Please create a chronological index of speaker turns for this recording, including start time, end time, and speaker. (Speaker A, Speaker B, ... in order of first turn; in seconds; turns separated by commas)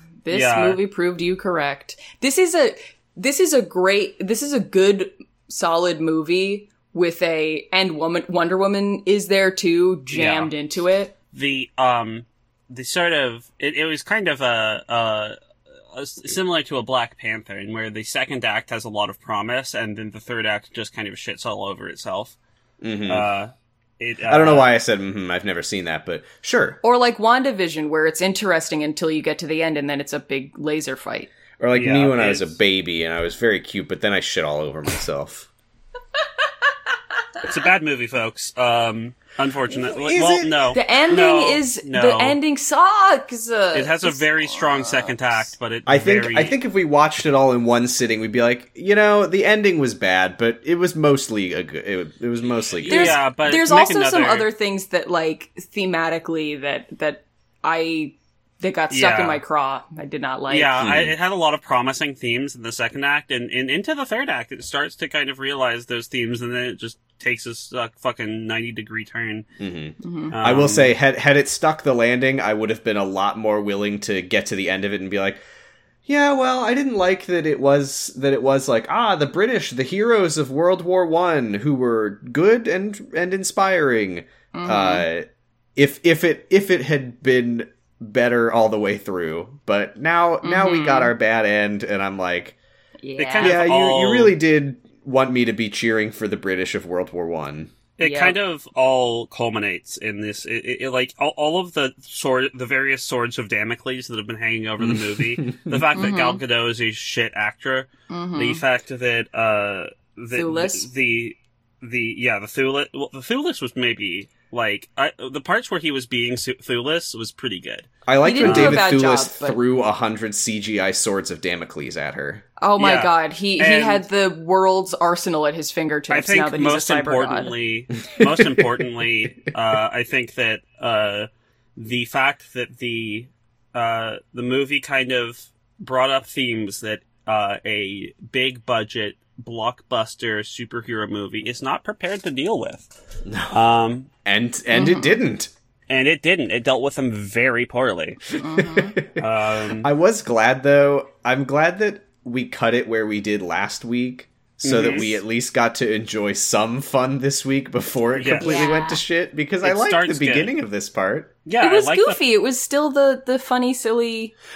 Speaker A: 0.2-11.1, Speaker B: 0.3-0.8, Speaker B: 10.1-10.5, Speaker B: 11.3-15.4, Speaker B: 15.9-22.4, Speaker C: 22.8-23.3, Speaker B: 23.1-24.7, Speaker C: 24.3-26.8, Speaker A: 26.8-31.3, Speaker C: 31.6-35.5, Speaker B: 31.8-32.6, Speaker B: 37.4-42.4, Speaker C: 39.9-40.6, Speaker A: 40.7-45.2, Speaker B: 43.7-46.6, Speaker C: 45.9-53.2, Speaker B: 52.8-54.5, Speaker A: 52.9-60.8, Speaker B: 58.9-59.4, Speaker B: 60.5-69.5, Speaker C: 60.8-61.2, Speaker C: 69.6-75.4, Speaker A: 70.0-70.3, Speaker B: 70.3-70.9, Speaker C: 76.1-92.6, Speaker A: 84.5-85.1, Speaker A: 90.4-91.1, Speaker A: 93.0-93.6, Speaker B: 93.2-94.4, Speaker C: 93.4-97.7, Speaker B: 98.0-117.9, Speaker A: 98.0-98.4, Speaker C: 104.8-105.8, Speaker A: 105.9-106.4, Speaker A: 108.1-108.6, Speaker A: 110.3-110.9, Speaker C: 118.1-122.5, Speaker A: 118.2-119.6, Speaker B: 118.4-118.8, Speaker A: 122.6-127.5, Speaker B: 122.8-124.0, Speaker B: 126.1-142.9, Speaker C: 128.1-128.8, Speaker C: 143.3-143.6, Speaker B: 143.5-144.1, Speaker C: 144.2-145.5, Speaker A: 144.7-145.2, Speaker B: 145.9-148.2, Speaker A: 148.4-149.0, Speaker C: 148.6-161.3, Speaker B: 149.2-149.9, Speaker B: 154.6-155.2, Speaker B: 158.2-158.6, Speaker A: 158.4-159.0, Speaker B: 159.6-160.6, Speaker B: 161.4-162.2, Speaker A: 161.6-164.3